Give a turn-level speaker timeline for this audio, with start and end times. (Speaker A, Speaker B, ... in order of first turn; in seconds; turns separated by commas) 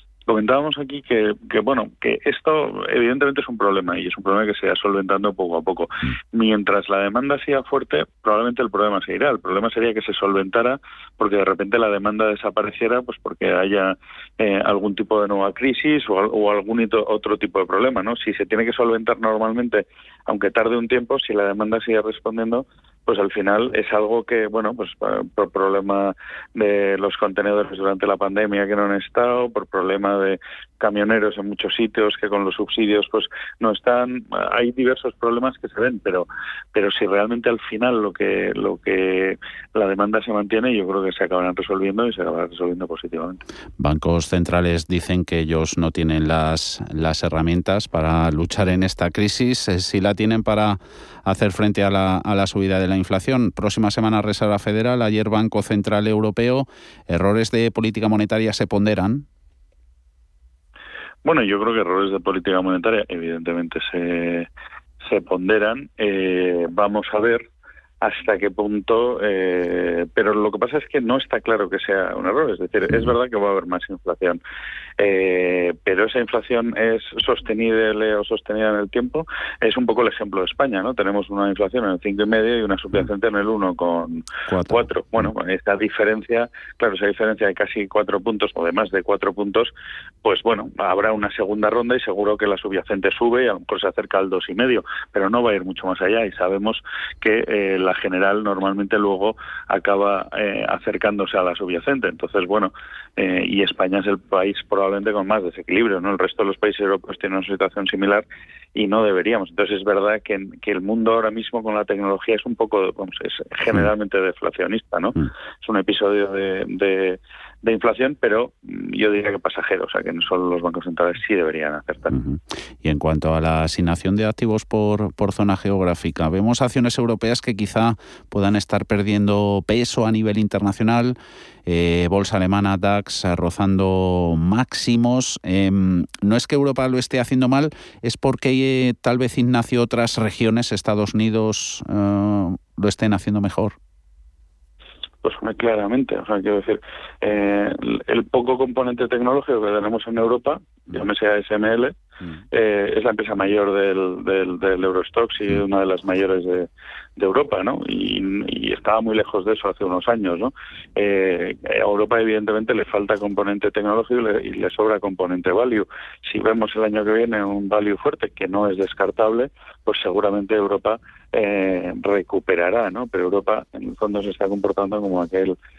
Speaker A: 0.3-43.4, Speaker B: 43.8-59.3, Speaker A: 61.2-64.5, Speaker A: 65.0-67.5, Speaker A: 68.0-74.4, Speaker A: 75.0-89.7, Speaker B: 84.5-85.3, Speaker A: 90.2-122.2, Speaker B: 122.1-143.8, Speaker A: 145.2-151.9, Speaker A: 152.5-175.6